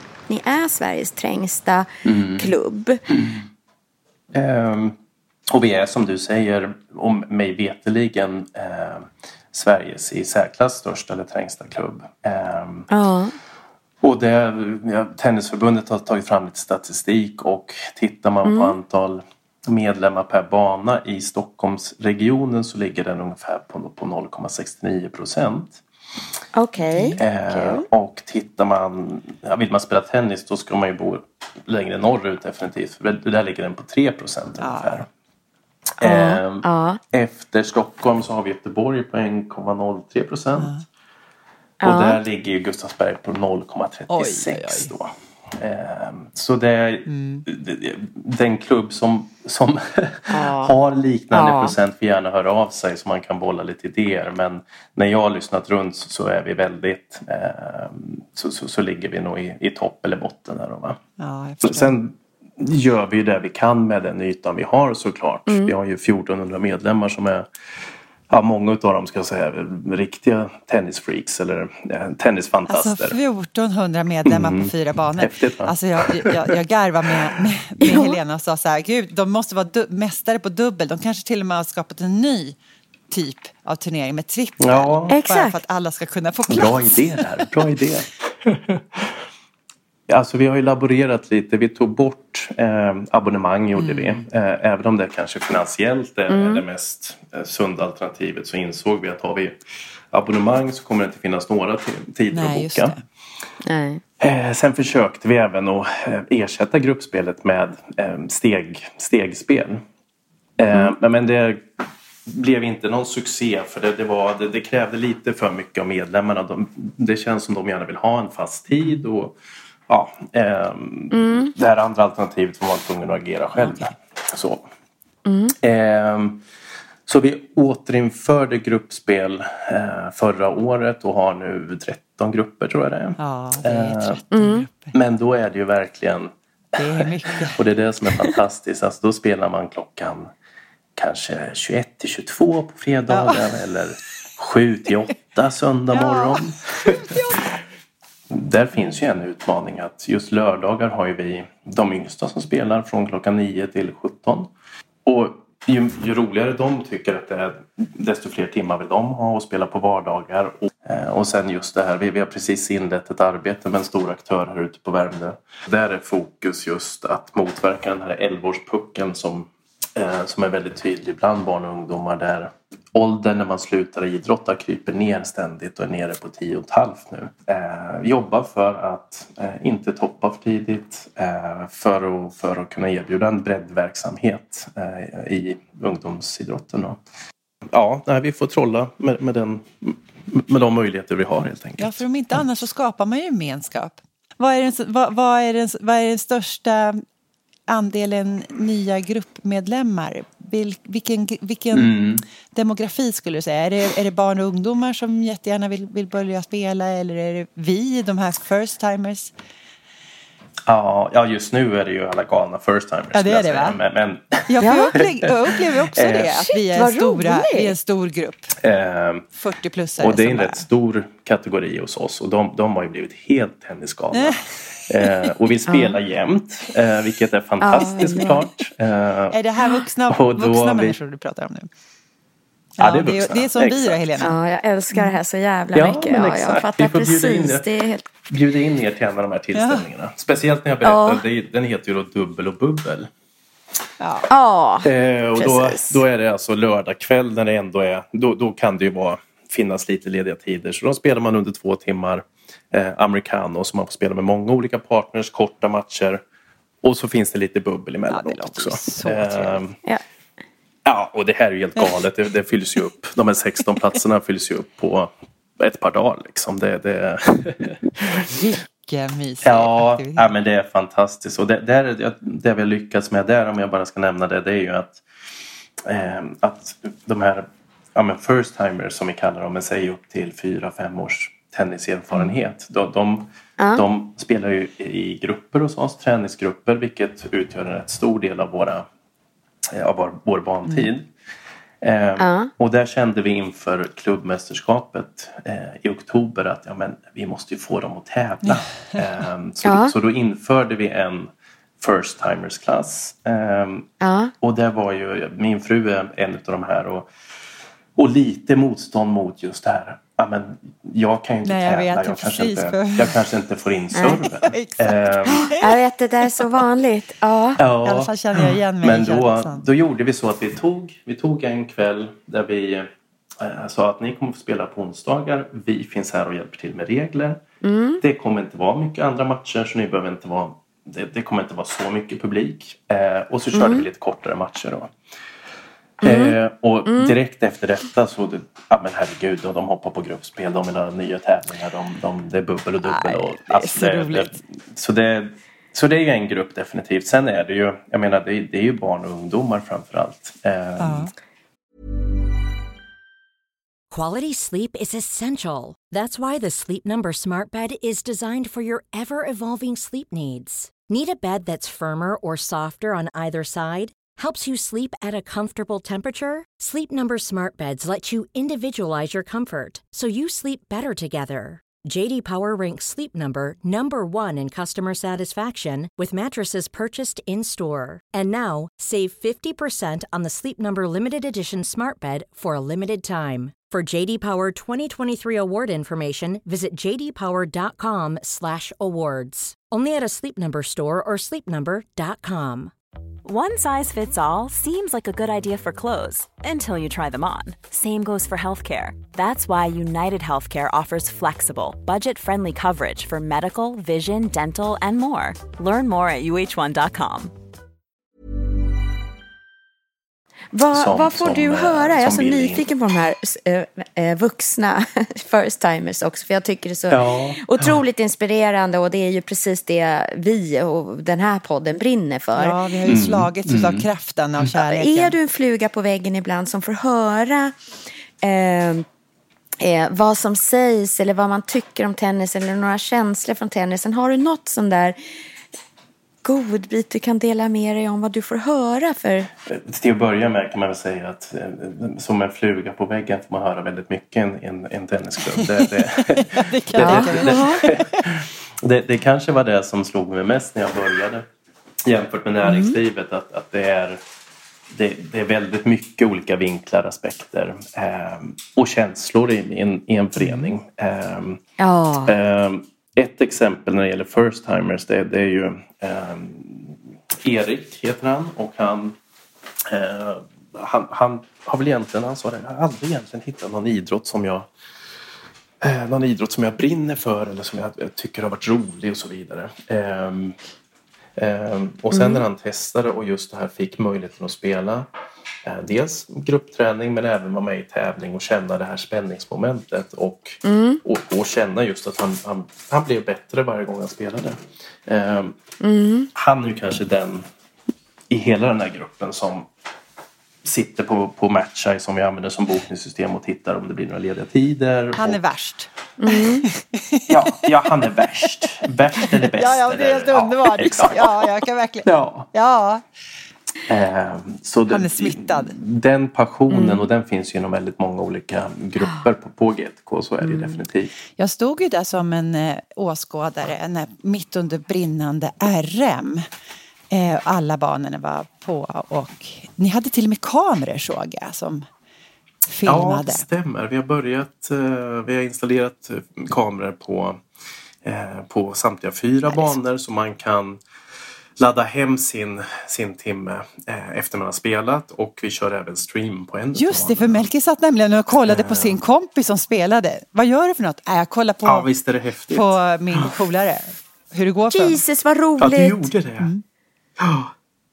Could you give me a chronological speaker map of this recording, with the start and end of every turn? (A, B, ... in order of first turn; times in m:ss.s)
0:00.3-0:03.0 A
0:02.0-0:02.5 B
0:04.3-0:05.0 B
0:05.5-0:12.9 B
0:12.9-0:13.3 A
0:14.0-0:25.8 B
0:18.4-0:18.8 A
0:26.5-0:27.8 A
0:26.8-0:27.2 C
0:27.2-0:35.1 B
0:34.6-0:35.0 C
0:36.0-0:37.0 A
0:36.0-0:40.7 B
0:40.6-0:40.8 C
0:41.8-0:42.2 A
0:41.8-1:01.0 B
0:44.1-0:44.9 C
0:47.1-0:47.4 C
0:50.3-0:50.7 A
0:51.3-0:51.7 A
1:01.2-1:01.9 C
1:01.6-1:07.5 B
1:05.5-1:05.7 A
1:08.3-1:13.2 B
1:12.7-1:22.6 C
1:14.2-1:16.5 B
1:17.8-1:18.2 A
1:23.1-1:27.3 C
1:24.6-1:25.1 B
1:25.1-1:25.6 A
1:26.5-1:29.2 B
1:30.1-1:39.6 B
1:33.8-1:34.2 C
1:36.3-1:36.6 A
1:40.1-1:43.0 B
1:42.3-1:43.0 C
1:43.6-1:44.0 A
1:44.2-1:49.8 B
1:50.6-1:51.7 B
1:52.3-2:04.6 B
2:01.1-2:01.5 A
2:03.6-2:03.9 C
2:05.2-2:05.5 A
2:05.6-2:06.4 B
2:07.1-2:14.2 B
2:13.2-2:14.9 C
2:14.3-2:14.6 A
2:14.9-2:20.3 B
2:16.8-2:17.6 C
2:21.0-2:26.9 B
2:23.1-2:23.5 C
2:25.9-2:27.6 C
2:28.3-2:34.5 B
2:35.0-3:07.0 B
3:07.7-3:12.4 B
3:11.8-3:17.0 C
3:17.7-3:22.0 C
3:21.7-3:22.2 B
3:22.5-3:29.3 C
3:30.7-3:34.5 B
3:33.1-3:33.8 C
3:34.5-3:38.5 C
3:34.6-3:35.0 A
3:35.9-3:36.3 B
3:36.2-3:37.7 A
3:38.6-3:39.3 B
3:39.4-3:40.6 C
3:40.0-3:49.4 B
3:44.1-3:45.3 C
3:45.7-3:46.0 A
3:47.6-3:48.4 A
3:47.9-3:48.4 C
3:49.3-3:51.7 C
3:50.1-3:51.0 B
3:52.8-3:54.0 B
3:52.8-3:54.3 C
3:54.2-3:58.1 A
3:55.7-3:57.6 B
3:58.3-4:03.1 B
3:59.5-3:59.8 C
4:00.8-4:01.2 A
4:04.0-4:04.3 C
4:04.3-4:06.0 A
4:04.8-4:16.2 B
4:16.8-4:19.8 B
4:18.1-4:19.6 C
4:20.8-4:28.2 B
4:28.1-4:30.3 C
4:29.4-4:35.0 B
4:35.8-4:48.8 B
4:43.6-4:43.8 A
4:49.7-4:51.1 B
4:51.8-5:03.9 B
4:52.2-4:52.5 A
4:59.6-4:59.9 A
5:04.0-5:04.3 A
5:04.4-5:07.1 B
5:08.0-5:15.5 B
5:11.4-5:13.2 C
5:13.9-5:14.2 A
5:14.2-5:15.7 C
5:15.6-5:17.6 A
5:17.6-5:27.4 B
5:17.8-5:19.6 C
5:27.6-5:28.0 A
5:28.0-5:34.9 B
5:33.5-5:33.9 A
5:36.0-5:37.2 A
5:36.0-5:51.1 B
5:42.8-5:44.4 C
5:50.8-5:51.1 C
5:53.9-6:32.7 D
6:33.2-6:47.3 E
6:50.5-7:02.6 A
6:50.7-6:52.6 B
6:56.9-6:57.7 B
7:02.4-7:05.1 C
7:02.8-7:03.9 B
7:04.5-7:07.5 A
7:08.2-7:08.8 A
7:09.6-7:15.0 A
7:16.2-7:19.3 A
7:19.4-7:31.2 B
7:26.1-7:28.2 C
7:26.8-7:27.6 A
7:31.8-7:34.0 B
7:32.4-7:32.8 A
7:34.7-7:41.4 B
7:41.6-7:42.2 A
7:42.0-7:49.0 B
7:49.7-7:54.5 B
7:55.6-8:00.4 B
8:01.2-8:04.9 B
8:01.9-8:02.2 A
8:05.4-8:15.4 B
8:10.4-8:10.8 A
8:15.6-8:16.1 A
8:16.1-8:17.2 B
8:18.1-8:19.5 B
8:20.4-8:25.2 B
8:25.0-8:27.5 C
8:26.0-8:26.5 A
8:27.1-8:31.1 B
8:29.2-8:32.8 C
8:31.8-8:32.3 B
8:33.7-8:40.9 B
8:34.7-8:35.5 C
8:36.5-8:36.8 A
8:40.2-8:40.6 A
8:41.2-8:46.3 C
8:46.9-8:51.7 C
8:52.5-8:53.2 C
8:52.6-8:57.2 B
8:57.8-9:00.6 B
9:01.4-9:07.2 B
9:06.5-9:11.7 C
9:08.2-9:08.8 B
9:11.4-9:13.2 B
9:12.3-9:14.8 C
9:14.5-9:15.9 A
9:15.4-9:16.3 B
9:17.0-9:17.3 B